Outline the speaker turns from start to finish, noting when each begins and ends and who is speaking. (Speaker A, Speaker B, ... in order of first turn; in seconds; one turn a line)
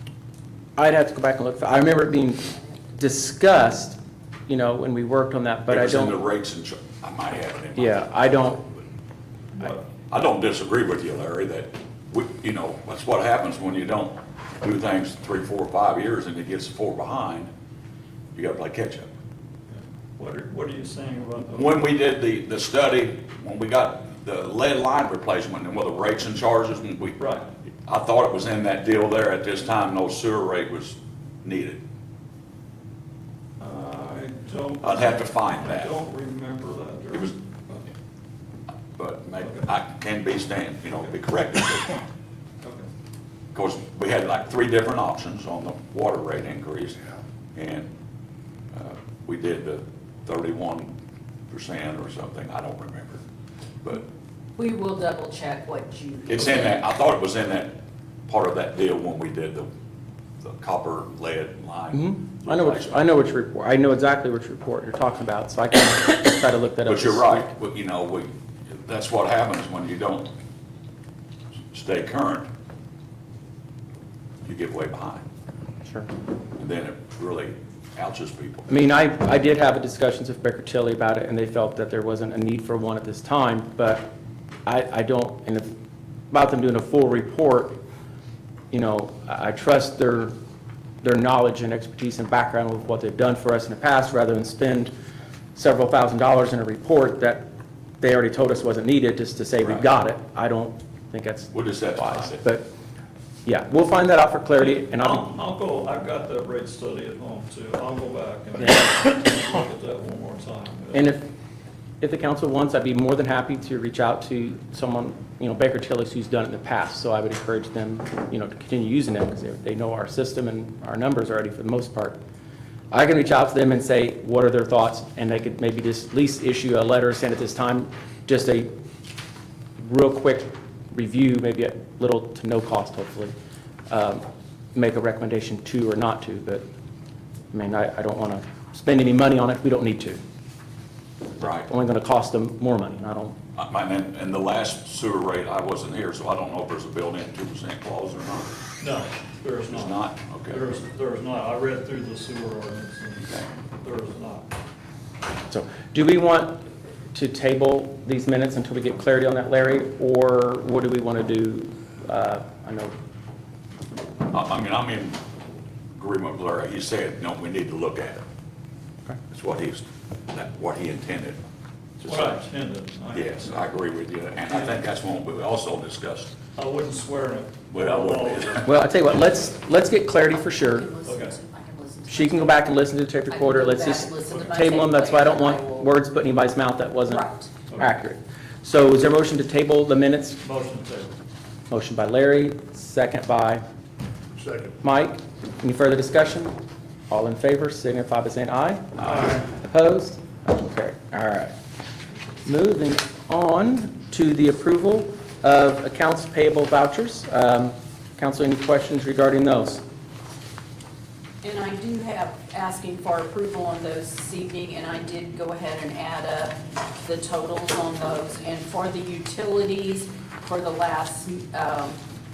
Speaker A: 0.8-6.2
Speaker B: 5.7-8.6
Speaker A: 7.8-8.6
Speaker B: 10.1-17.5
Speaker B: 18.3-19.1
Speaker C: 19.7-21.8
Speaker B: 21.5-27.2
Speaker C: 27.2-27.4
Speaker B: 27.8-31.8
Speaker C: 33.6-37.8
Speaker B: 34.8-35.9
Speaker B: 39.0-42.0
Speaker C: 42.6-42.9
Speaker B: 43.5-47.0
Speaker B: 47.5-47.9
Speaker B: 48.7-50.9
Speaker B: 51.5-53.2
Speaker D: 54.6-56.8
Speaker B: 56.3-59.7
Speaker B: 60.4-63.1
Speaker A: 61.9-67.5
Speaker B: 66.9-70.3
Speaker B: 71.7-72.5
Speaker B: 74.4-75.2
Speaker B: 76.6-78.7
Speaker A: 78.7-84.1
Speaker A: 84.7-85.7
Speaker A: 86.3-87.8
Speaker A: 88.7-90.3
Speaker A: 91.0-94.9
Speaker A: 95.5-102.7
Speaker B: 101.5-102.4
Speaker A: 103.4-105.2
Speaker C: 104.6-111.1
Speaker A: 110.9-111.3
Speaker A: 112.0-122.2
Speaker A: 122.9-128.7
Speaker A: 129.8-133.3
Speaker A: 133.9-136.6
Speaker A: 137.5-140.2
Speaker B: 141.4-141.7
Speaker A: 141.6-143.4
Speaker B: 143.6-148.5
Speaker C: 148.8-150.0
Speaker B: 149.7-150.6
Speaker C: 150.5-154.5
Speaker A: 155.5-162.9
Speaker B: 164.3-165.2
Speaker B: 165.9-168.2
Speaker B: 169.3-171.4
Speaker C: 172.0-173.4
Speaker B: 172.0-172.4
Speaker B: 173.1-176.3
Speaker C: 176.6-178.7
Speaker B: 177.7-178.7
Speaker A: 178.6-180.9
Speaker D: 180.5-182.7
Speaker C: 181.0-181.3
Speaker A: 182.1-190.4
Speaker D: 183.3-185.9
Speaker D: 187.0-187.5
Speaker C: 190.4-191.1
Speaker A: 191.7-193.6
Speaker A: 194.8-196.5
Speaker A: 197.1-201.5
Speaker A: 202.4-209.8
Speaker D: 211.4-222.0